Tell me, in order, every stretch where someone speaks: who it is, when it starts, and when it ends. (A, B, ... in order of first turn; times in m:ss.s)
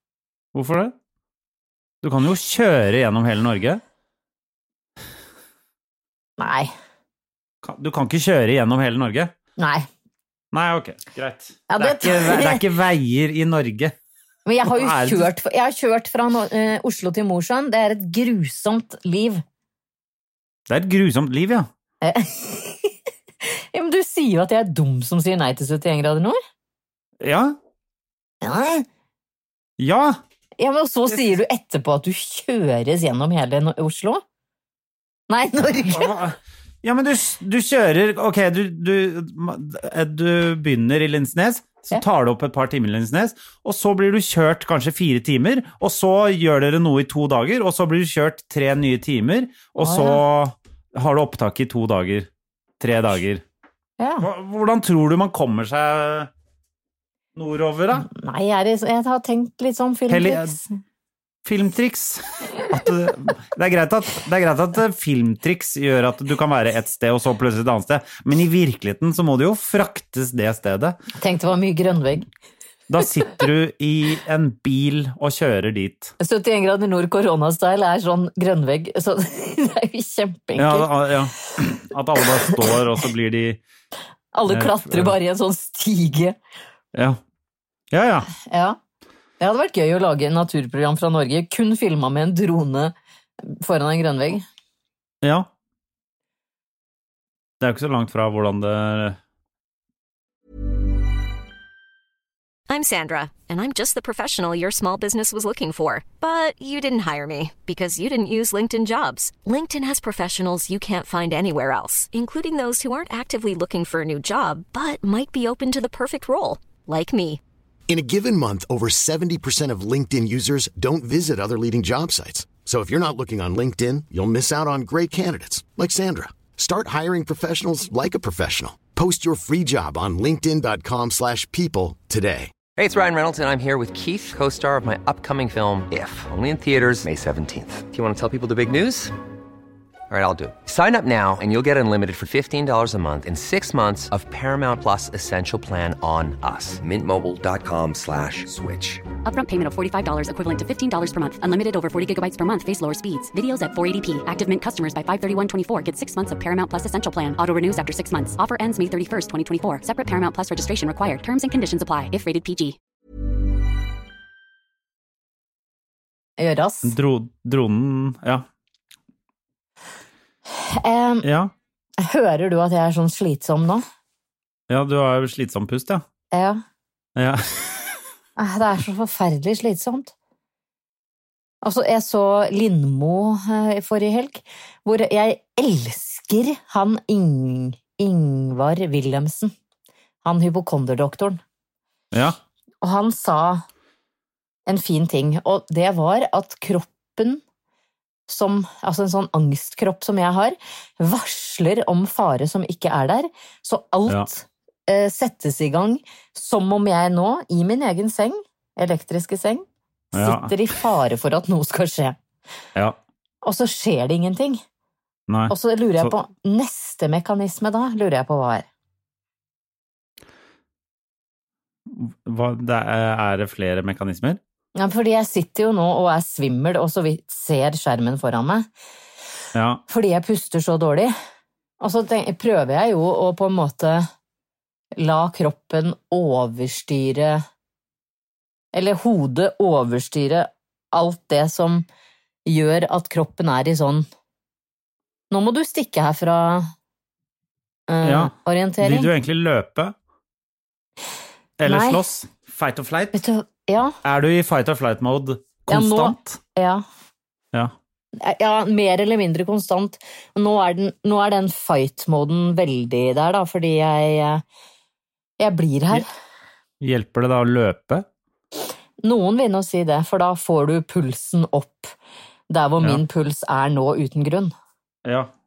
0:00.5-0:00.9 A
0:02.0-0:03.8 A
0:06.4-0:06.7 B
0:07.6-0:09.3 A
0:09.6-0:09.9 B
0:10.5-0:13.9 A
0:11.7-0:12.6 B
0:14.4-0:19.4 B
0:14.7-0:15.3 A
0:20.7-0:21.7 A
0:22.0-0:26.4 B
0:27.2-0:27.6 A
0:28.4-0:28.9 B
0:29.8-0:30.2 A
0:30.6-0:34.2 B
0:35.3-0:36.1 B
0:35.9-0:52.3 A
0:49.8-0:50.2 B
0:52.8-0:53.4 A
0:54.0-0:54.3 B
0:54.2-0:56.3 A
0:57.4-0:58.1 A
0:58.0-1:00.7 B
1:00.1-1:00.6 A
1:01.4-1:11.0 A
1:11.2-1:12.2 B
1:12.9-1:16.1 A
1:16.2-1:20.9 B
1:20.6-1:23.6 A
1:24.3-1:26.4 B
1:24.5-1:25.2 A
1:27.9-1:28.3 A
1:28.4-1:28.8 B
1:29.4-1:34.4 B
1:37.6-1:39.2 A
1:42.7-1:57.4 C
1:57.9-2:12.5 D
2:12.8-2:19.1 E
2:20.1-2:29.1 E
2:29.2-2:42.8 F
2:46.4-2:46.9 B
2:46.8-2:48.4 A
2:50.5-2:51.2 B
2:51.2-2:51.5 A
2:52.0-2:53.8 B
2:54.7-2:56.0 A
2:56.3-2:56.6 B
2:57.2-2:58.0 A
2:58.4-3:00.1 B
3:01.6-3:09.5 B
3:10.2-3:11.4 B
3:12.8-3:13.6 B
3:14.7-3:17.4 B
3:18.3-3:32.2 B
3:30.1-3:30.6 A
3:33.4-3:34.6 B
3:35.3-3:36.1 A
3:35.5-3:38.7 B
3:41.9-3:44.4 A
3:44.7-3:48.7 B
3:49.6-3:49.8 A
3:49.9-3:51.1 B
3:51.8-3:54.1 B
3:55.0-3:57.4 B
3:58.7-4:01.8 B
4:02.4-4:04.1 B
4:05.3-4:06.7 B
4:07.9-4:09.1 B
4:08.0-4:09.9 A
4:11.6-4:13.2 A
4:11.6-4:12.0 B
4:13.1-4:14.0 B
4:14.0-4:16.4 A
4:15.7-4:16.8 B
4:18.2-4:24.4 B
4:25.4-4:26.1 B
4:26.8-4:28.0 A
4:29.0-4:31.9 B
4:32.5-4:34.5 B
4:35.0-4:35.3 A